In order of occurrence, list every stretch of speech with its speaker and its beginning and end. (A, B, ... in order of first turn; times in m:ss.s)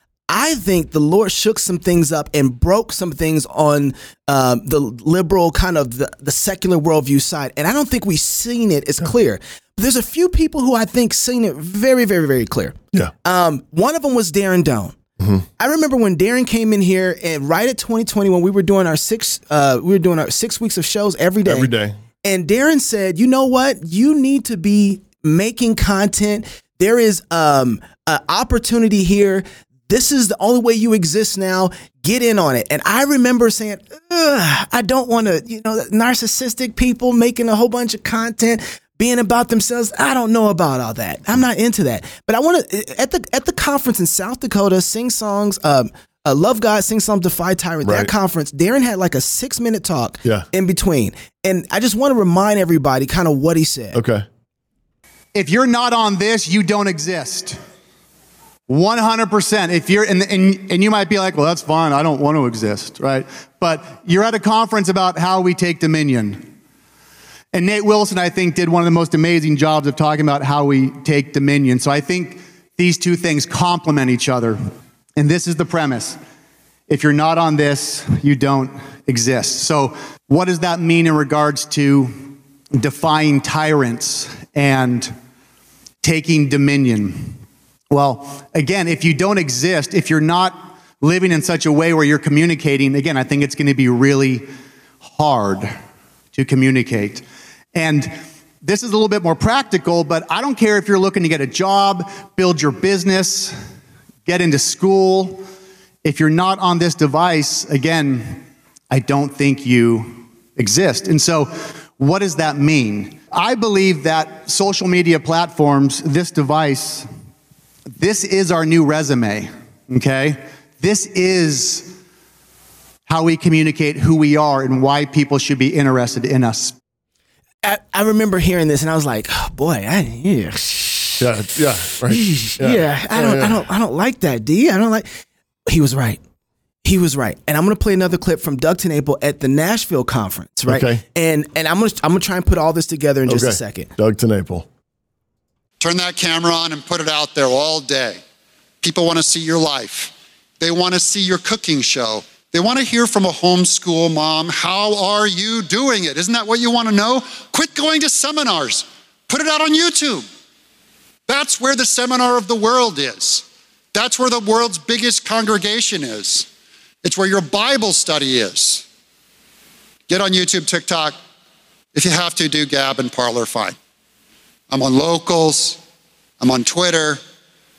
0:00.3-0:15.0 A
0:15.2-0:15.4 B
0:15.6-0:54.0 A
0:21.4-0:22.0 B
0:47.8-0:48.1 B
0:53.9-0:54.2 B
0:55.3-0:57.6 C
0:58.7-1:06.5 C
1:07.5-1:14.6 C
1:15.2-1:16.2 C
1:16.9-1:25.1 C
1:26.0-1:27.4 C
1:27.9-1:34.5 C
1:35.0-1:35.7 C
1:36.3-1:43.5 C
1:44.2-1:45.4 C
1:46.0-1:48.4 C
1:48.9-1:57.1 C
1:57.9-2:01.9 C
2:03.1-2:06.7 C
2:07.6-2:11.3 A
2:11.2-2:13.6 B
2:12.1-2:15.1 A
2:15.7-2:16.2 A
2:16.8-2:23.9 A
2:20.7-2:21.0 B
2:23.3-2:24.6 B
2:25.8-2:28.2 D
2:28.8-2:40.2 D
2:41.3-2:46.5 D
2:47.0-2:48.8 D
2:50.1-2:51.2 D
2:51.9-2:53.7 D
2:54.7-2:55.8 D
2:56.4-2:57.2 D